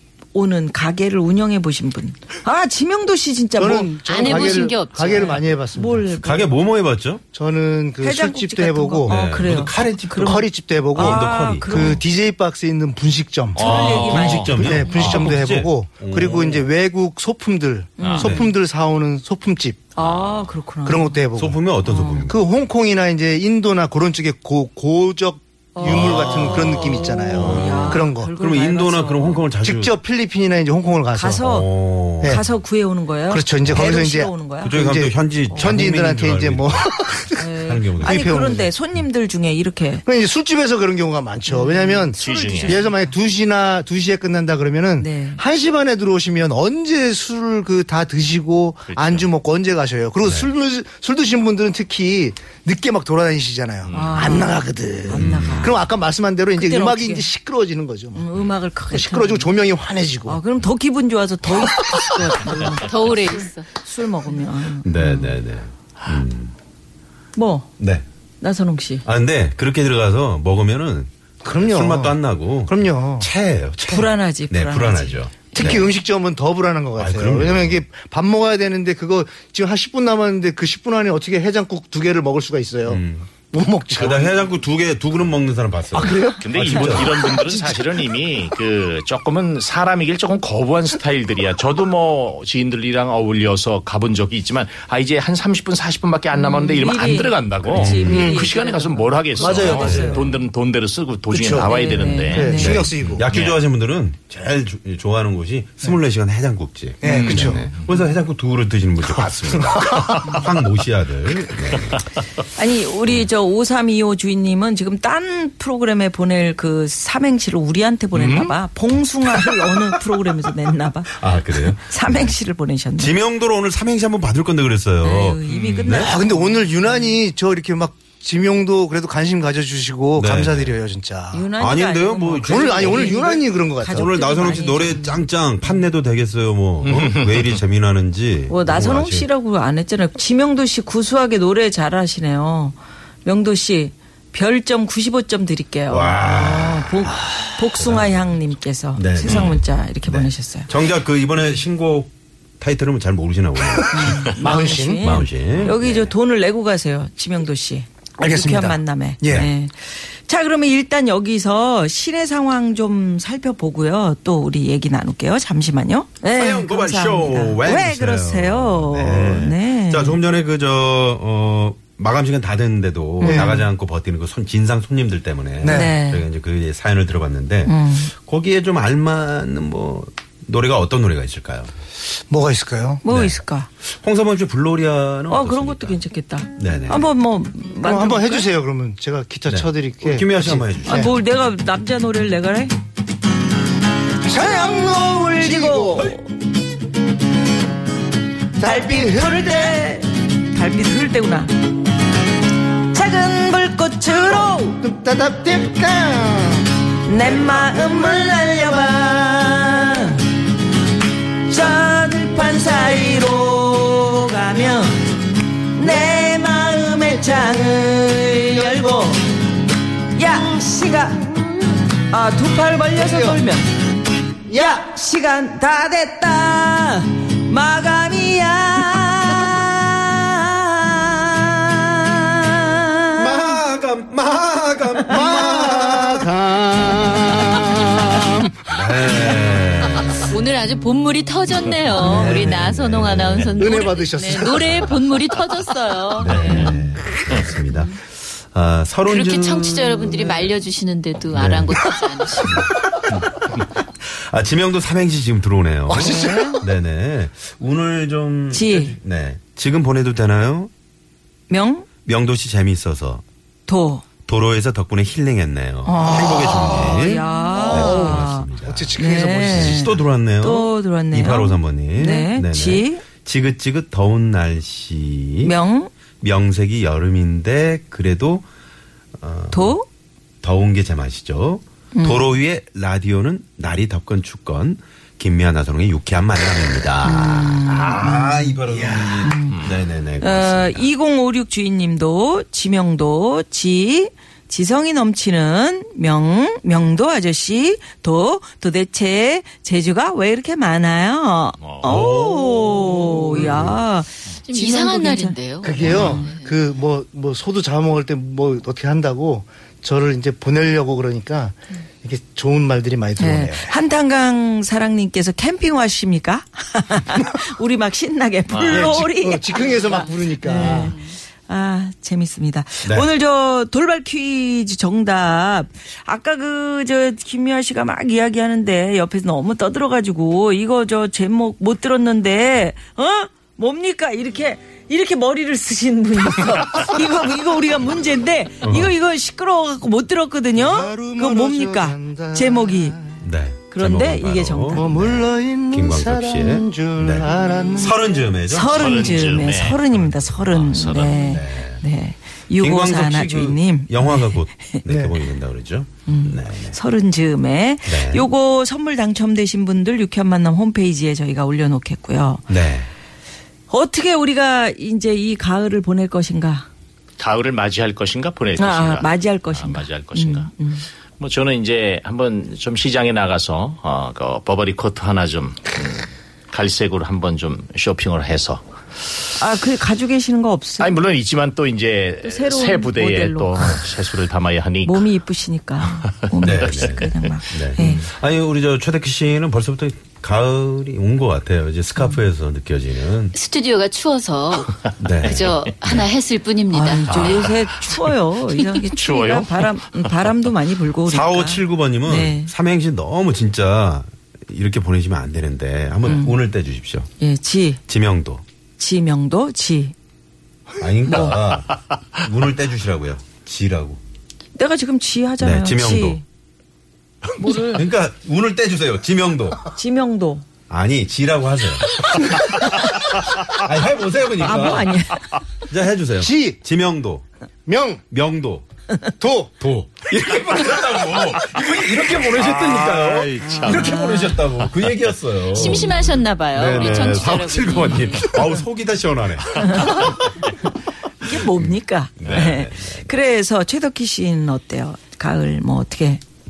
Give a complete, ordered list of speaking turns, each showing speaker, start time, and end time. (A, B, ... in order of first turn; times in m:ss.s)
0:00.3-0:06.6 A
0:03.6-0:06.0 B
0:04.0-0:05.4 C
0:06.1-0:07.2 D
0:07.3-0:09.2 B
0:08.0-0:12.0 A
0:09.1-0:12.0 D
0:10.2-0:19.8 B
0:13.5-0:14.7 A
0:13.6-0:15.3 E
0:13.6-0:16.5 D
0:18.0-0:18.5 A
0:18.0-0:18.3 E
0:18.2-0:18.5 D
0:20.0-0:21.2 A
0:20.0-0:20.5 D
0:20.8-0:21.6 B
0:21.4-0:22.4 D
0:21.8-0:22.3 A
0:22.3-0:28.3 B
0:25.7-0:29.4 A
0:25.8-0:30.0 D
0:29.6-0:31.4 B
0:31.1-0:34.8 A
0:31.4-0:32.4 D
0:33.3-0:38.7 B
0:34.6-0:36.9 D
0:35.5-0:35.8 A
0:37.4-0:40.0 A
0:37.5-0:38.4 D
0:40.0-0:58.2 B
0:41.5-0:43.2 A
0:42.2-0:42.8 E
0:45.0-0:45.4 A
0:48.9-0:49.3 E
0:50.2-0:50.5 D
0:53.8-0:54.3 E
0:53.9-0:55.8 A
0:55.1-0:55.8 D
0:56.6-0:57.3 A
0:58.1-0:59.5 A
0:58.9-1:00.4 B
1:00.2-1:05.4 A
1:02.7-1:03.7 C
1:04.8-1:06.5 D
1:07.3-1:07.7 A
1:07.8-1:08.0 D
1:08.4-1:09.0 A
1:09.0-1:15.9 D
1:11.4-1:13.3 B
1:13.9-1:15.8 A
1:15.5-1:24.3 B
1:17.0-1:17.8 D
1:22.8-1:23.3 D
1:23.9-1:24.4 E
1:24.0-1:27.3 D
1:25.9-1:27.7 B
1:26.4-1:43.6 E
1:36.4-1:40.4 A
1:37.7-1:38.2 D
1:38.0-1:38.4 B
1:39.4-1:40.2 B
1:39.7-1:40.2 D
1:41.3-1:43.2 B
1:41.5-1:42.9 A
1:42.4-1:52.0 D
1:47.0-1:47.7 B
1:47.0-1:47.7 E
1:52.6-2:03.2 A
1:58.1-1:58.6 E
2:01.1-2:02.3 D
2:03.0-2:06.1 D
2:05.0-2:07.2 A
2:05.5-2:05.9 E
2:05.9-2:11.5 B
2:10.2-2:10.8 D
2:11.3-2:15.3 A
2:11.6-2:13.2 D
2:12.4-2:14.2 B
2:13.9-2:19.3 D
2:18.5-2:30.7 A
2:25.9-2:27.2 D
2:27.7-2:28.4 D
2:28.9-2:34.3 D
2:33.6-2:35.2 B
2:33.9-2:50.2 A
2:35.0-2:36.1 D
2:38.2-2:39.5 B
2:46.2-3:01.7 D
2:53.2-2:53.7 A
2:53.2-2:53.6 B
2:55.6-2:55.9 B
2:55.6-2:56.2 A
2:57.6-2:58.1 A
3:02.3-3:03.0 B
3:03.0-3:03.7 A
3:03.1-3:06.0 D
3:05.3-3:08.5 A
3:06.5-3:07.1 D
3:07.8-3:11.1 B
3:09.5-3:11.1 D
3:10.8-3:12.7 A
3:14.2-3:16.1 B
3:14.3-3:16.2 A
3:18.6-3:19.8 B
3:18.6-3:21.5 A
3:22.9-3:24.8 A
3:24.1-3:26.7 B
3:27.0-3:30.2 A
3:27.3-3:29.0 B
3:31.5-3:35.0 A
3:35.7-3:39.2 A
3:40.1-3:41.3 A
3:40.3-3:41.5 B
3:42.0-3:43.7 A
3:43.0-3:43.4 B
3:44.5-3:44.8 B
3:44.5-3:53.4 A
3:53.2-3:56.3 D
3:55.1-3:58.5 B
3:58.7-4:00.4 D
4:00.3-4:06.8 C
4:01.9-4:03.6 D
4:03.6-4:04.8 B
4:04.4-4:05.3 D
4:06.2-4:10.5 D
4:09.0-4:12.6 C
4:11.3-4:11.9 D
4:12.4-4:12.7 D
4:14.3-4:20.7 D
4:15.9-4:16.6 B
4:16.0-4:16.5 A
4:18.5-4:19.0 A
4:21.5-4:21.9 A
4:22.0-4:23.2 D
4:23.7-4:24.0 A
4:24.2-4:29.0 D
4:25.8-4:33.0 A
4:27.2-4:30.0 B
4:29.5-4:35.6 D
4:35.4-4:35.9 A
4:36.2-4:38.4 D
4:39.2-4:39.8 D
4:39.5-4:39.8 A
4:40.4-4:50.9 D
4:41.9-4:42.3 A
4:47.0-4:48.6 A
4:48.7-4:49.2 B
4:49.2-4:49.6 A
4:49.5-4:49.8 E
4:50.2-5:06.3 A
5:01.6-5:01.9 E
5:01.8-5:03.8 D
5:04.5-5:06.6 C
5:05.6-5:13.7 B
5:13.2-5:43.0 A
5:18.5-5:18.9 E
5:18.7-5:20.9 B
5:20.6-5:21.0 C
5:22.8-5:23.1 D
5:38.6-5:38.9 D
5:40.5-5:43.2 B
5:43.2-5:50.5 D
5:43.7-5:44.9 A
5:44.7-5:48.1 B
5:48.5-5:54.8 A
5:48.7-5:49.8 E
5:50.5-5:51.2 E
5:51.0-5:51.8 D
5:52.6-5:56.8 D
5:54.8-5:55.1 B
5:56.0-6:02.4 A
5:57.8-5:58.3 D
6:02.5-6:02.9 D
6:03.7-6:06.7 A
6:07.2-6:10.5 E
6:08.6-6:10.8 A
6:11.2-6:18.6 E
6:19.4-6:21.0 A
6:20.8-6:25.2 E
6:22.2-6:23.9 A
6:24.8-6:28.1 A
6:26.4-6:27.1 E
6:26.4-6:33.3 D
6:33.3-6:34.7 C
6:35.0-6:36.1 D
6:35.2-6:37.4 C
6:36.7-6:42.5 A
6:37.1-6:38.0 E
6:38.8-6:40.1 E
6:41.0-6:47.1 D
6:46.0-6:46.4 A
6:47.2-6:47.8 A
6:47.9-6:48.4 D
6:48.8-6:49.9 A
6:50.8-6:54.0 D
6:51.1-6:51.4 A
6:54.5-6:56.2 A
6:55.4-6:56.2 D
6:57.4-6:57.8 A
6:57.6-6:59.6 D
6:59.7-7:00.4 A
7:00.7-7:02.9 D
7:03.5-7:05.0 D
7:04.4-7:05.2 A
7:05.7-7:07.2 D
7:06.2-7:06.6 B
7:07.6-7:08.0 B
7:08.1-7:08.6 D
7:09.2-7:09.6 B
7:09.6-7:20.1 D
7:12.2-7:14.0 E
7:13.4-7:14.5 A
7:15.5-7:18.4 C
7:15.6-7:16.2 A
7:19.7-7:20.1 A
7:21.2-7:26.2 A
7:22.2-7:23.1 D